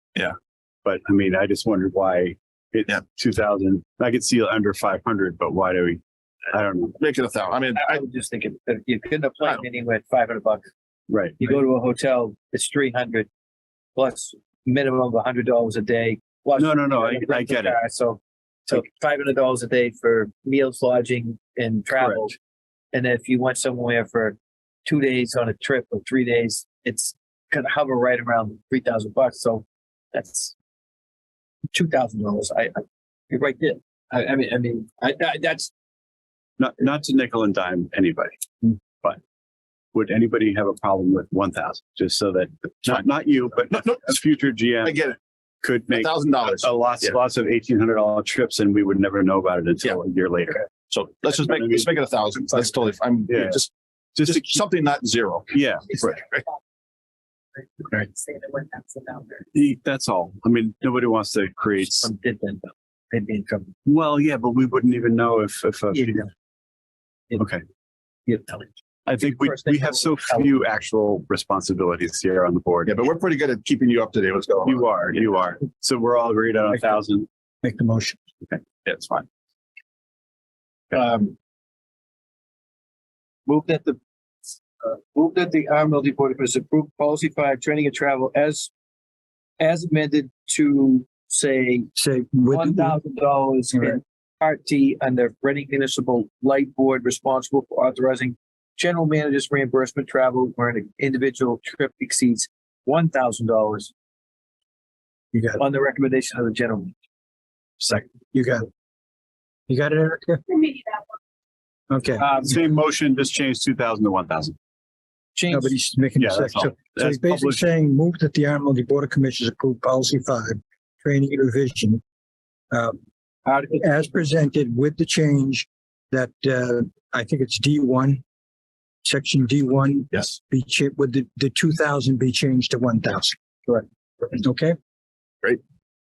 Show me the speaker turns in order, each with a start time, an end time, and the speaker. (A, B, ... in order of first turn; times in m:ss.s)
0:00.8-0:07.0 A
0:07.0-0:08.0 B
0:07.8-0:10.7 C
0:11.1-0:11.6 A
0:11.4-0:13.3 C
0:14.0-0:22.4 C
0:16.6-0:17.8 A
0:21.9-0:22.3 A
0:22.9-0:30.5 C
0:31.7-0:35.7 C
0:36.6-0:39.2 A
0:39.9-0:45.1 A
0:43.7-0:44.2 B
0:44.8-0:45.2 B
0:45.6-0:50.6 A
0:45.9-0:47.1 B
0:50.9-0:53.7 B
0:51.3-0:51.9 A
0:52.5-0:52.7 A
0:53.3-0:54.7 A
0:54.2-0:56.4 B
0:55.5-0:56.2 A
0:55.9-0:56.6 D
0:57.6-0:59.5 D
0:59.5-1:02.1 A
1:01.9-1:03.7 C
1:03.9-1:06.3 A
1:05.9-1:06.3 C
1:07.4-1:07.6 A
1:08.3-1:10.6 C
1:09.1-1:13.0 A
1:12.9-1:14.9 B
1:14.6-1:17.3 A
1:17.6-1:18.2 E
1:18.8-1:19.3 B
1:20.9-1:21.3 C
1:23.5-1:24.0 C
1:24.8-1:28.7 C
1:29.6-1:31.9 C
1:32.0-1:33.0 E
1:32.5-1:43.9 C
1:33.7-1:34.0 E
1:45.3-1:45.6 E
1:45.6-1:46.9 C
1:48.3-1:48.7 E
1:49.7-1:50.8 E
1:51.9-1:52.3 E
1:52.2-1:52.6 C
1:52.4-1:54.6 A
1:55.4-1:55.8 C
1:55.5-2:02.0 E
1:56.2-1:57.6 A
2:02.7-2:03.0 E
2:03.4-2:04.1 C
2:03.8-2:08.2 E
2:09.0-2:14.8 E